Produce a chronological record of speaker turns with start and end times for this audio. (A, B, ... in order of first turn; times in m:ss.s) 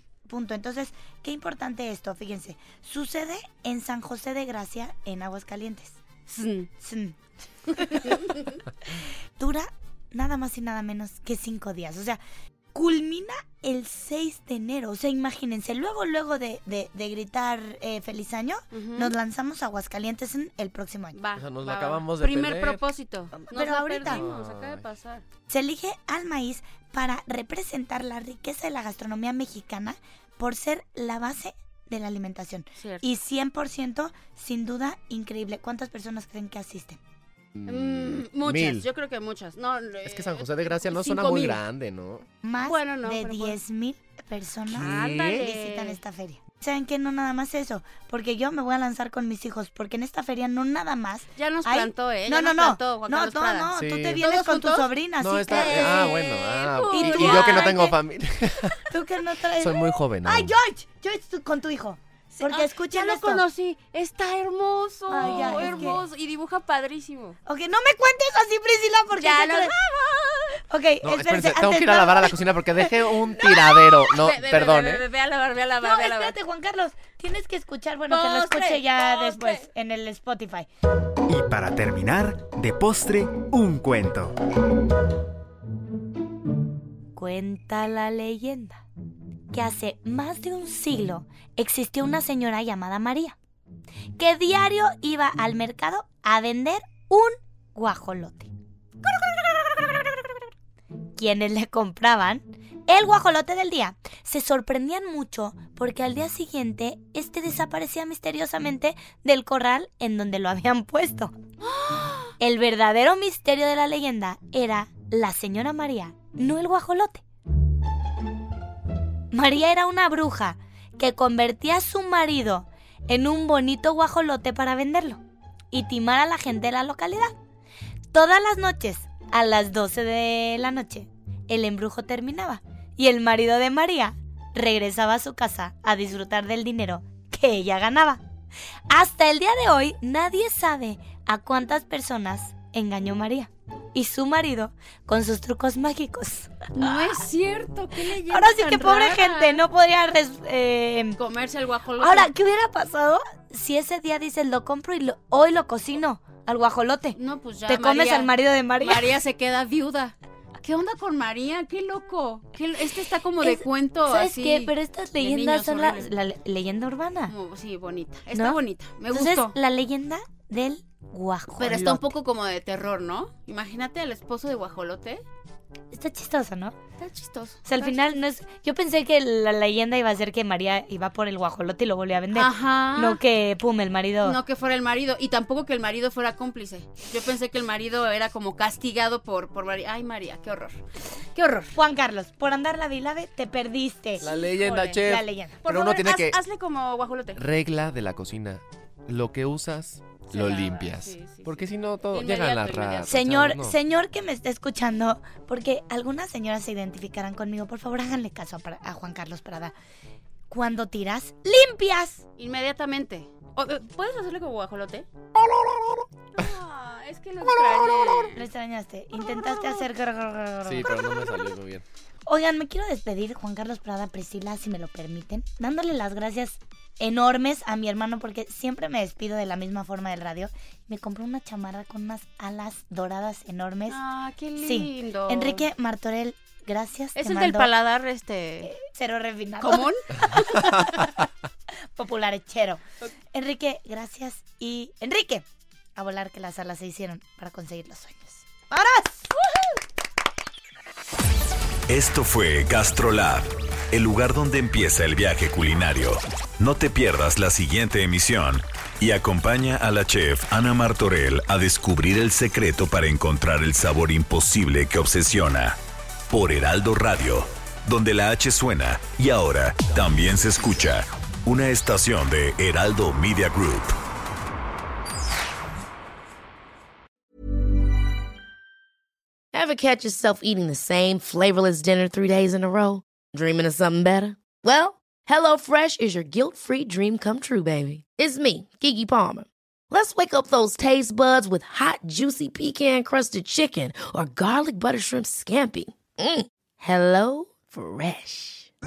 0:00.3-0:06.0 A
0:06.3-0:06.7 B
0:06.8-0:08.3 A
0:07.9-0:08.2 B
0:09.4-0:12.2 A
0:12.7-0:21.2 A
0:18.7-0:19.1 B
0:21.1-0:25.2 B
0:21.4-0:22.8 C
0:23.3-0:24.2 A
0:24.0-0:24.8 C
0:25.5-0:37.0 A
0:32.8-0:33.0 B
0:37.6-0:38.9 C
0:37.6-0:41.6 B
0:40.0-0:42.2 C
0:42.4-0:56.1 A
0:42.6-0:43.6 B
0:44.7-0:46.0 B
0:44.7-0:45.4 C
0:51.4-0:54.9 B
0:53.7-0:54.2 C
0:55.2-0:58.9 C
0:55.5-0:57.9 B
0:56.9-0:58.0 A
0:58.9-1:03.4 A
0:59.6-1:00.5 C
1:02.3-1:07.4 B
1:05.1-1:06.0 A
1:07.4-1:09.7 A
1:09.2-1:10.6 B
1:10.7-1:12.4 A
1:11.0-1:15.0 C
1:13.2-1:16.4 B
1:15.8-1:20.7 A
1:18.1-1:19.7 B
1:21.3-1:24.4 D
1:27.2-1:28.8 A
1:29.5-1:33.4 A
1:34.2-1:38.5 A
1:41.2-1:51.3 A
1:51.6-1:52.3 B
1:52.4-1:57.2 A
1:59.3-2:05.2 A
2:05.7-2:07.3 A
2:08.1-2:18.2 A
2:18.9-2:27.1 A
2:26.7-2:29.6 B
2:28.0-2:31.2 A
2:31.2-2:32.3 B
2:32.0-2:39.1 A
2:37.1-2:46.1 B
2:43.4-2:47.3 A
2:47.3-2:49.5 B
2:48.3-2:52.1 A
2:51.6-2:55.2 B
2:55.9-2:56.8 A
2:57.0-2:58.0 B
2:57.6-3:04.4 A
3:02.3-3:03.2 B
3:04.2-3:10.8 B
3:11.3-3:11.7 B
3:11.7-3:14.2 A
3:14.2-3:15.1 B
3:14.2-3:16.4 C
3:15.0-3:15.6 A
3:15.6-3:17.4 B
3:17.4-3:23.8 C
3:20.3-3:23.2 B
3:23.0-3:29.7 A
3:30.5-3:32.2 A
3:32.4-3:35.0 B
3:36.4-3:38.4 B
3:38.3-3:41.0 A
3:39.2-3:39.8 B
3:40.6-3:41.8 C
3:42.3-3:54.0 A
3:53.9-3:55.6 B
3:54.6-3:57.7 A
3:57.1-3:58.7 B
3:58.6-3:59.9 A
3:59.6-4:01.1 B
4:02.0-4:02.8 A
4:03.3-4:05.4 A
4:06.0-4:08.4 A
4:08.7-4:09.1 B
4:11.9-4:25.8 E
4:26.3-4:33.9 E
4:39.5-4:58.7 F